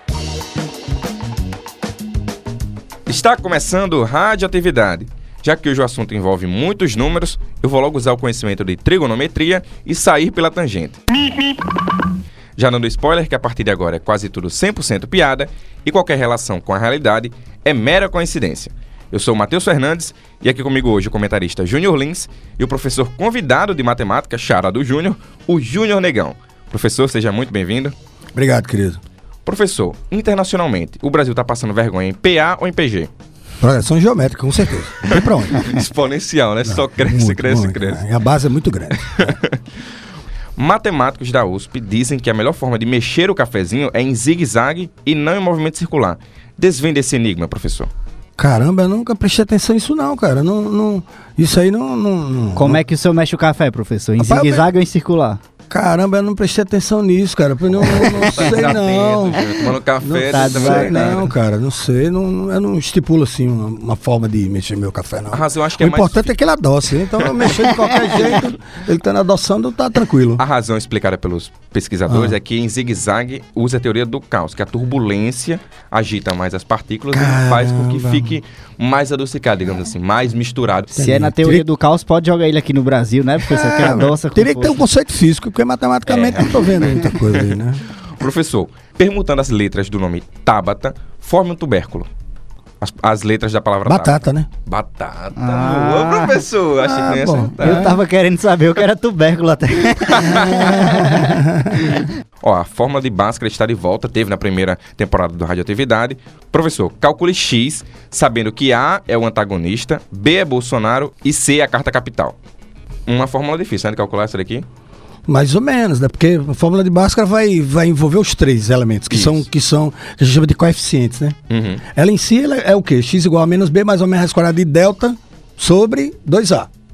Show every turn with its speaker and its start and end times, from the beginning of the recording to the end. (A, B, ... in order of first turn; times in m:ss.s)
0:03.1-0:11.0 A
0:12.6-0:28.0 A
0:28.4-0:29.0 B
0:29.4-0:33.1 A
0:33.6-0:35.6 B
0:35.0-0:38.0 A
0:36.6-0:39.3 B
0:39.0-0:39.6 A
0:40.6-0:47.9 A
0:48.4-0:52.8 B
0:52.6-0:55.4 C
0:54.2-0:54.7 B
0:55.7-0:59.4 B
0:57.8-1:01.3 A
1:00.0-1:10.4 B
1:00.3-1:01.2 C
1:05.3-1:06.3 A
1:07.2-1:08.4 A
1:10.4-1:21.0 A
1:12.1-1:12.4 B
1:17.1-1:18.4 B
1:21.0-1:24.8 C
1:21.0-1:21.7 B
1:23.5-1:27.8 B
1:26.1-1:27.6 A
1:28.1-1:32.1 A
1:32.8-1:38.0 A
1:33.9-1:34.5 B
1:35.4-1:36.4 C
1:36.8-1:38.0 B
1:37.6-1:41.2 C
1:40.1-1:41.2 A
1:40.4-1:41.8 B
1:42.0-1:52.4 A
1:53.1-1:54.6 A
1:55.3-2:01.4 B
1:59.1-1:59.4 A
2:01.5-2:01.8 A
2:01.9-2:06.7 B